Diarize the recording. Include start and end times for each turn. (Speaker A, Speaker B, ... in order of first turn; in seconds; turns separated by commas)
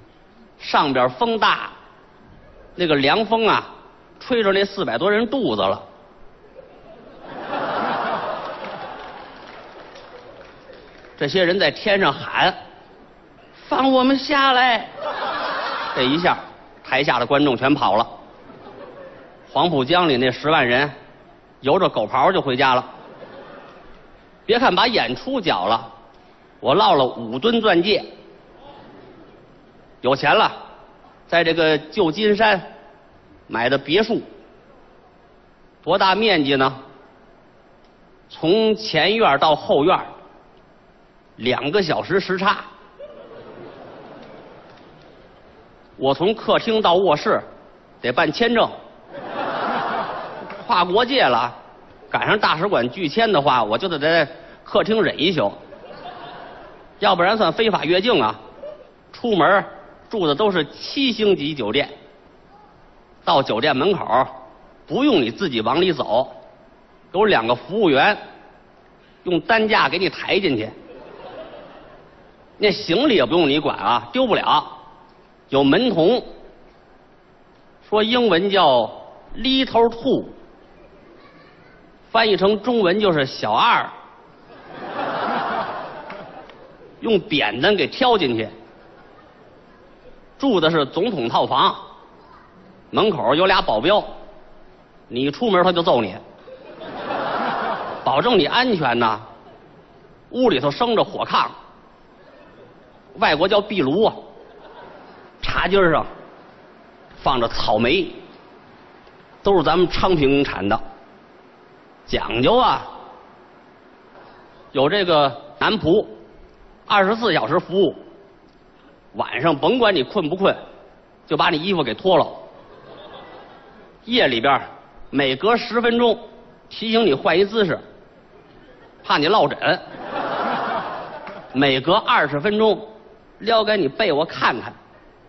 Speaker A: 0.6-1.7, Speaker A: 2.8-5.8, Speaker A: 11.2-12.6, Speaker A: 13.6-14.9, Speaker A: 15.9-18.1, Speaker A: 19.5-20.9, Speaker A: 21.6-22.9, Speaker A: 24.4-25.9, Speaker A: 26.6-28.1, Speaker A: 30.0-30.6, Speaker A: 31.3-32.7, Speaker A: 33.5-34.2, Speaker A: 35.8-36.8, Speaker A: 38.3-40.1, Speaker A: 41.4-42.6, Speaker A: 46.0-47.4, Speaker A: 48.0-48.8, Speaker A: 50.6-51.5, Speaker A: 52.1-55.6, Speaker A: 57.0-58.4, Speaker A: 59.1-61.9, Speaker A: 63.2-64.3, Speaker A: 64.9-66.3, Speaker A: 67.1-68.2, Speaker A: 69.2-70.7, Speaker A: 72.6-74.8, Speaker A: 75.5-76.3, Speaker A: 77.8-80.3, Speaker A: 82.1-83.9, Speaker A: 87.0-88.5, Speaker A: 90.4-91.8, Speaker A: 92.9-94.1, Speaker A: 95.1-96.2, Speaker A: 98.0-99.2, Speaker A: 100.3-101.5, Speaker A: 103.1-104.2, Speaker A: 105.4-106.1, Speaker A: 107.2-108.2, Speaker A: 109.4-110.8, Speaker A: 112.1-112.9, Speaker A: 114.7-116.2, Speaker A: 116.9-118.0, Speaker A: 119.1-120.6, Speaker A: 121.3-122.4, Speaker A: 124.0-127.8, Speaker A: 129.0-129.8, Speaker A: 131.5-134.8